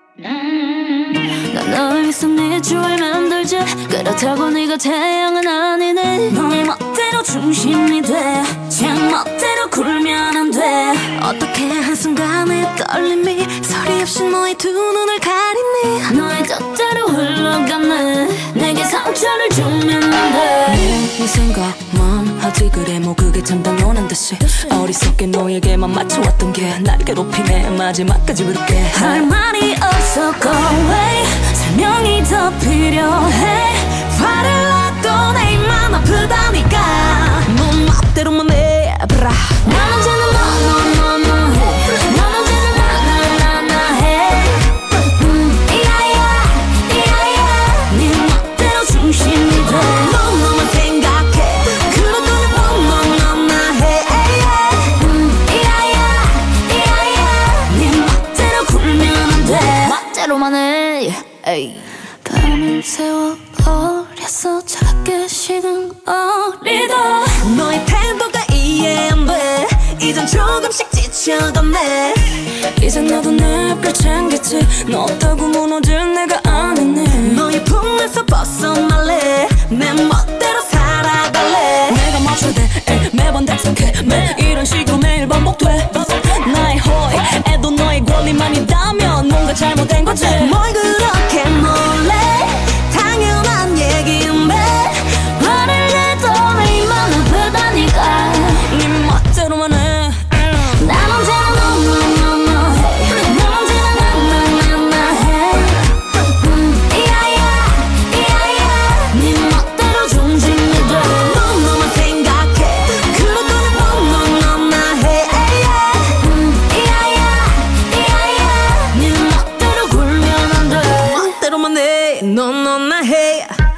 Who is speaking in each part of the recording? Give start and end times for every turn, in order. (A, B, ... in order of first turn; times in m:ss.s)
0:00.2-2:03.5 A